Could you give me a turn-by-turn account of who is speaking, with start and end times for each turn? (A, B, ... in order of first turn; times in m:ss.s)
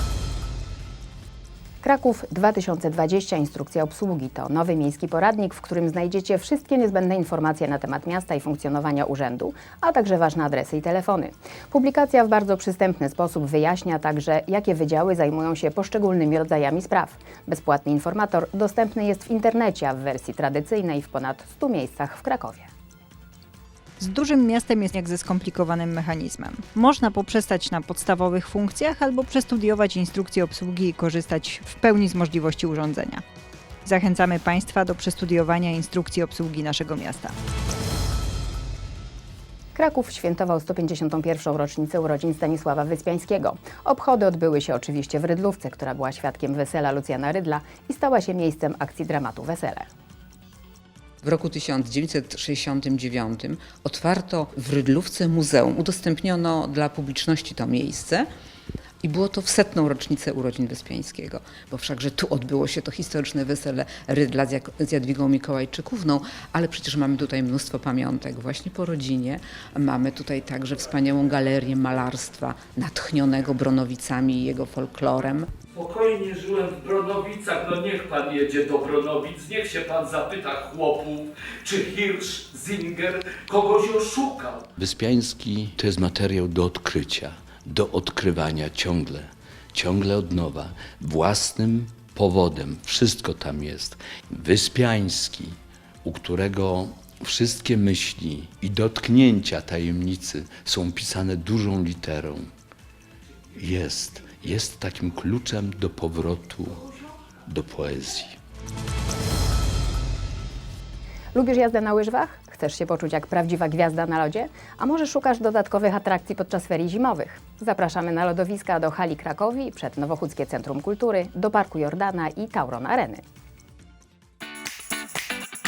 0:01.8-0:22.7 A
0:24.0-0:33.2 B
0:33.8-0:37.3 B
0:39.7-0:49.9 A
0:51.2-0:58.3 C
0:59.0-1:15.5 C
1:15.7-1:24.6 D
1:24.8-1:42.5 E
1:43.6-1:46.8 E
1:47.5-1:48.4 E
1:51.3-2:03.2 A